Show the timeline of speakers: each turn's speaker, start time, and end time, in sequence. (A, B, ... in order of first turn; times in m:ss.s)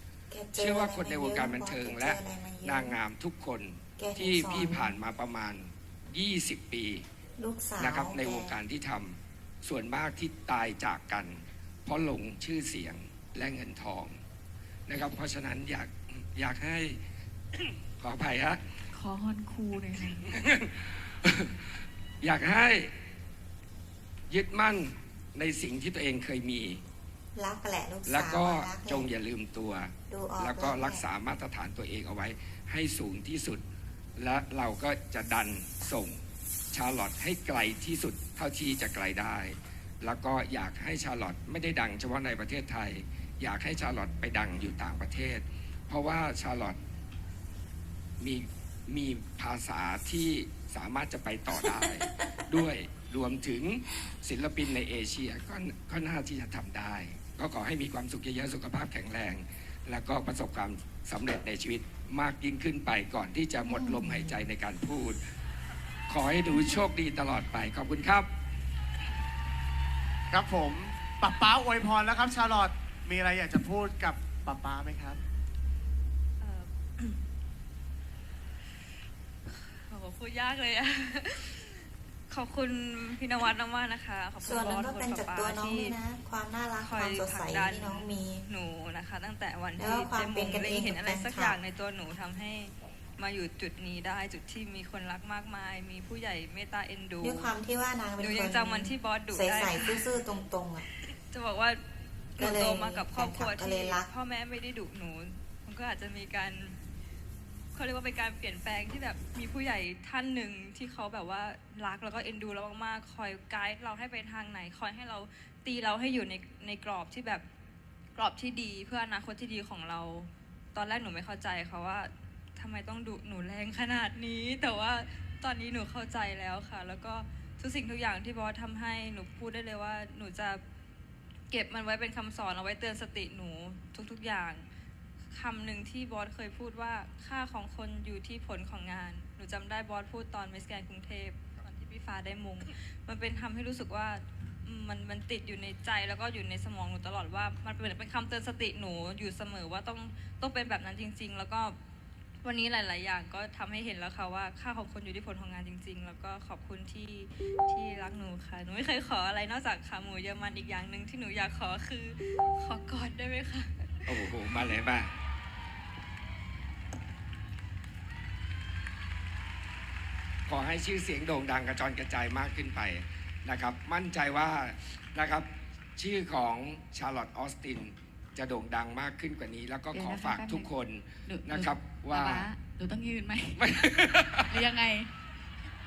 0:00.3-0:03.0 A
0:00.5-0:07.0 B
0:04.0-0:05.0 A
0:07.4-0:08.6 A
0:07.8-0:14.2 B
0:14.9-0:17.0 B
0:18.0-0:18.6 B
0:18.9-0:20.3 C
0:20.3-0:22.9 B
0:24.3-0:26.8 B
0:27.3-0:29.1 A
0:28.0-0:33.6 B
0:30.1-0:31.0 A
0:34.2-0:36.2 B
0:36.7-0:46.8 B
0:48.2-1:05.2 B
0:51.5-0:52.4 A
1:03.7-1:04.5 A
1:06.1-1:08.3 B
1:10.3-1:15.2 D
1:16.4-1:17.2 E
1:19.4-1:21.8 E
1:22.3-1:26.0 E
1:24.4-1:28.4 A
1:26.8-1:37.5 E
1:29.8-1:31.6 A
1:37.2-1:40.8 A
1:38.2-1:40.1 E
1:41.3-1:41.8 E
1:42.4-1:44.1 A
1:42.4-1:46.8 E
1:47.7-1:57.4 E
1:58.2-2:10.6 E
2:11.5-2:14.6 E
2:15.3-2:31.8 E
2:32.4-2:44.6 E
2:44.1-2:45.1 B
2:50.5-3:02.5 B
2:59.9-3:00.7 C
3:01.2-3:03.7 C
3:03.6-3:04.5 B
3:04.5-3:05.1 C